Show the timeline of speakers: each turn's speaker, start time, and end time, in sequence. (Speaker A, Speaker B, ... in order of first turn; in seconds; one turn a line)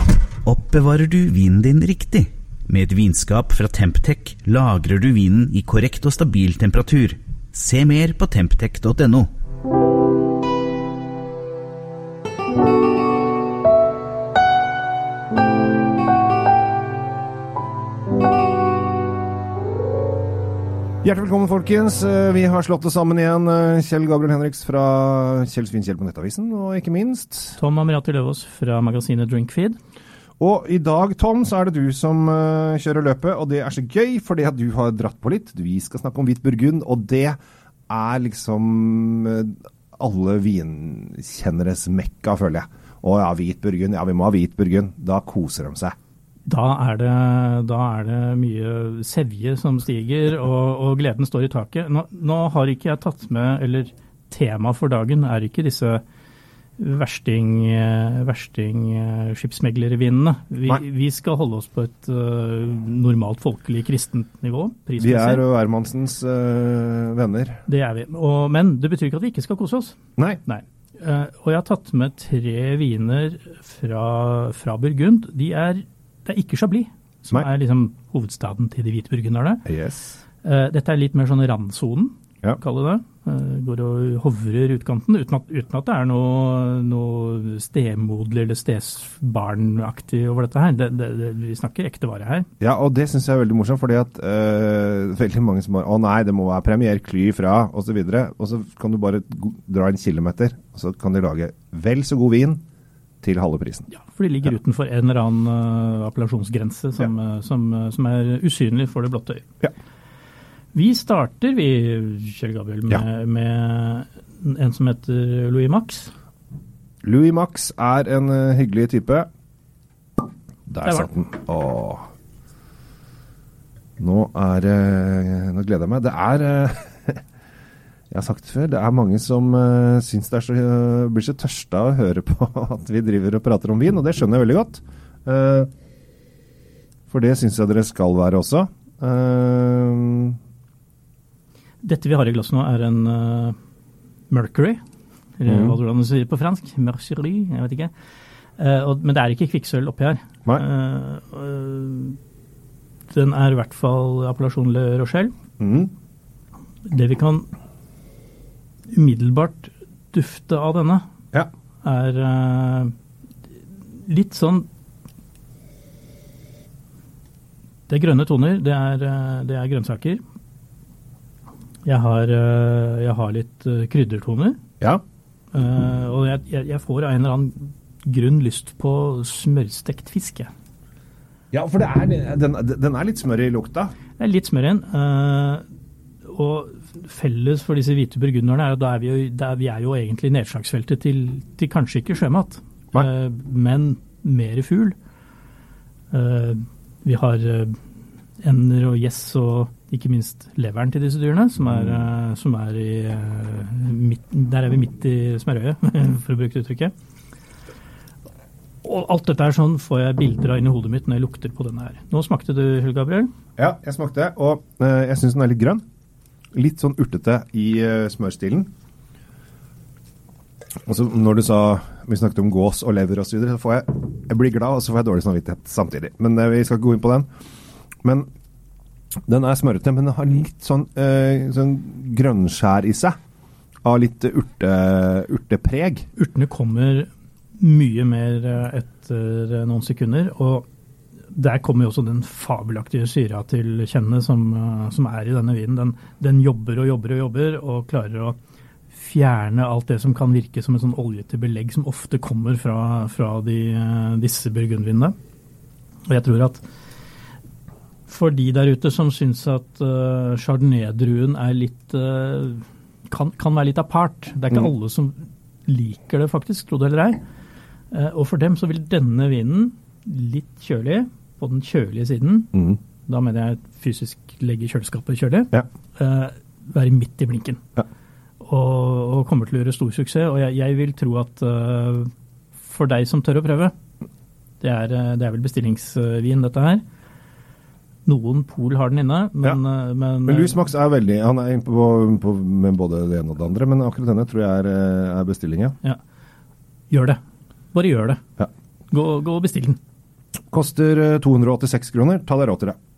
Speaker A: 0.4-9.3
Speaker B: 21.0-27.6
Speaker C: 27.6-29.8
Speaker B: 30.4-37.4
Speaker B: 37.9-46.0
Speaker C: 46.5-56.0
Speaker C: 56.8-65.4
Speaker B: 65.0-67.6
Speaker C: 67.7-79.6
Speaker B: 79.7-80.2
Speaker C: 80.4-92.5
Speaker B: 92.6-102.6
Speaker B: 103.2-103.9
Speaker C: 103.9-109.4
Speaker C: 110.7-116.1
Speaker B: 117.0-119.3
Speaker B: 120.7-122.1
Speaker C: 120.8-121.1
Speaker B: 124.0-127.2
Speaker B: 128.1-135.7
Speaker B: 137.1-140.4
Speaker C: 141.8-143.6
Speaker C: 144.3-144.8
Speaker C: 145.4-147.9
Speaker B: 145.4-145.8
Speaker C: 148.6-152.2
Speaker C: 153.1-155.3
Speaker B: 155.6-155.9
Speaker C: 156.9-157.5
Speaker C: 158.9-161.0
Speaker C: 161.8-162.9
Speaker C: 163.9-164.7
Speaker C: 167.9-170.2
Speaker C: 171.8-174.6
Speaker C: 175.5-180.5
Speaker B: 181.5-183.9
Speaker C: 184.2-185.6
Speaker C: 186.2-194.9
Speaker C: 196.1-197.8
Speaker C: 198.4-206.9
Speaker C: 208.8-213.3
Speaker B: 213.6-215.8
Speaker B: 216.5-218.7
Speaker B: 220.8-227.3
Speaker B: 228.0-228.3
Speaker B: 229.3-233.2
Speaker B: 233.8-236.1
Speaker C: 236.2-240.6
Speaker C: 241.3-248.3
Speaker C: 248.9-255.1
Speaker C: 256.1-256.6
Speaker C: 258.1-267.2
Speaker C: 267.9-277.6
Speaker C: 278.4-282.1
Speaker C: 282.6-283.7
Speaker C: 284.6-286.8
Speaker C: 288.1-290.6
Speaker B: 290.2-295.8
Speaker C: 296.9-297.2
Speaker C: 297.7-298.2
Speaker C: 298.9-299.8
Speaker B: 300.5-302.8